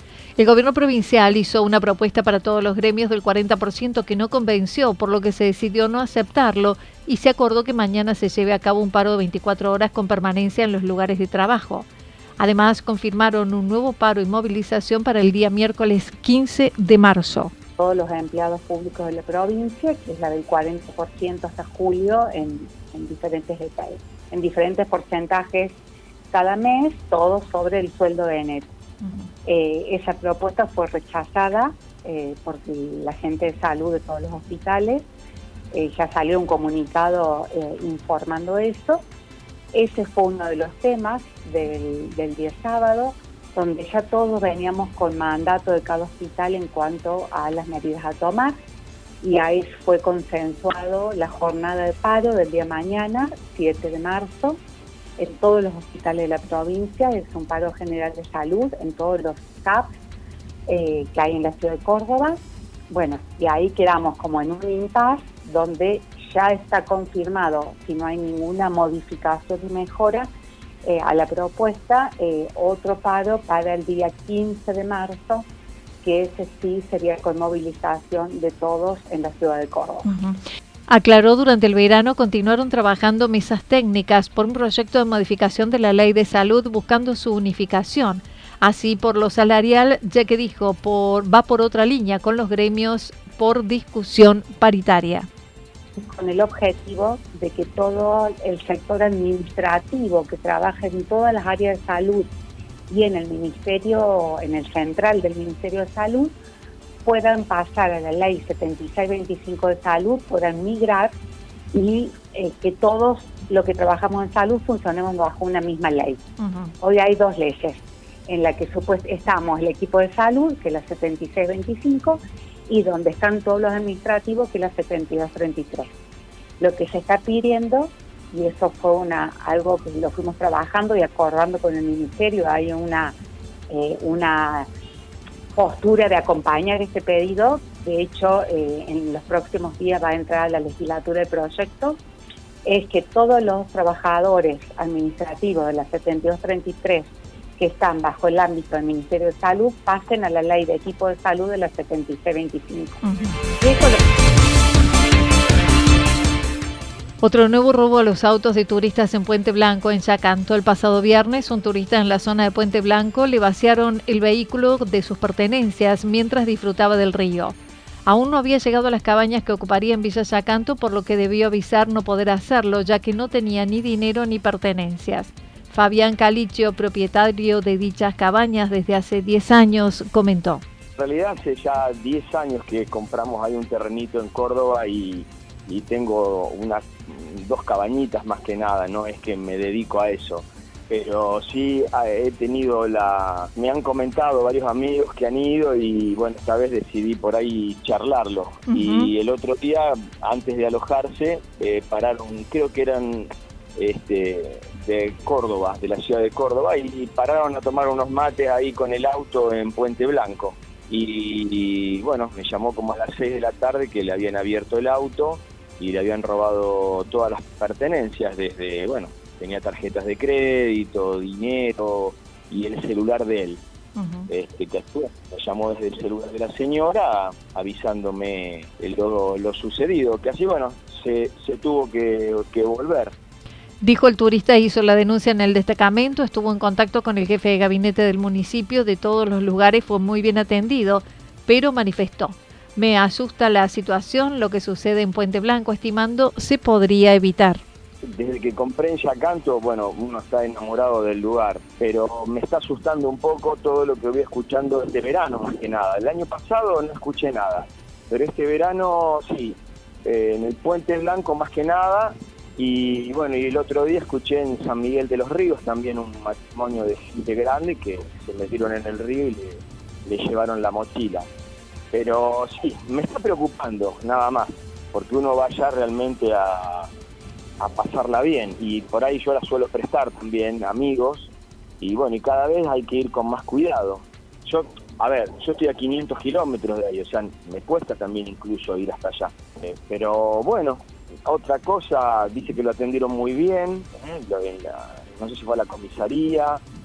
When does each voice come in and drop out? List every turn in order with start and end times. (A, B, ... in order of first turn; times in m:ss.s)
0:00.4-0:11.9 A
0:12.4-0:17.5 A
0:17.8-0:25.8 B
0:26.3-0:28.7 B
0:29.4-0:35.0 B
0:35.7-0:39.0 B
0:39.7-0:48.5 B
0:49.2-0:54.6 B
0:55.2-0:59.9 B
1:00.7-1:02.4 B
1:02.9-1:10.3 B
1:10.8-1:15.4 B
1:16.0-1:20.0 B
1:20.0-1:35.3 A
1:36.0-1:42.3 B
1:42.9-1:46.3 B
1:47.0-1:51.1 B
1:51.7-1:56.2 B
1:56.4-1:56.7 A
1:56.8-2:05.9 B
2:06.6-2:13.1 B
2:13.7-2:14.7 B
2:15.5-2:22.0 B
2:22.6-2:33.0 B
2:33.0-2:33.4 A
2:33.6-2:34.0 B
2:37.2-3:00.6 A
3:01.0-3:43.6 C
3:18.7-3:19.1 A
3:44.0-3:44.3 A
3:44.3-3:53.1 C
3:53.8-4:07.6 A
4:08.0-4:31.3 C
4:31.9-4:36.9 C
4:37.6-4:56.6 C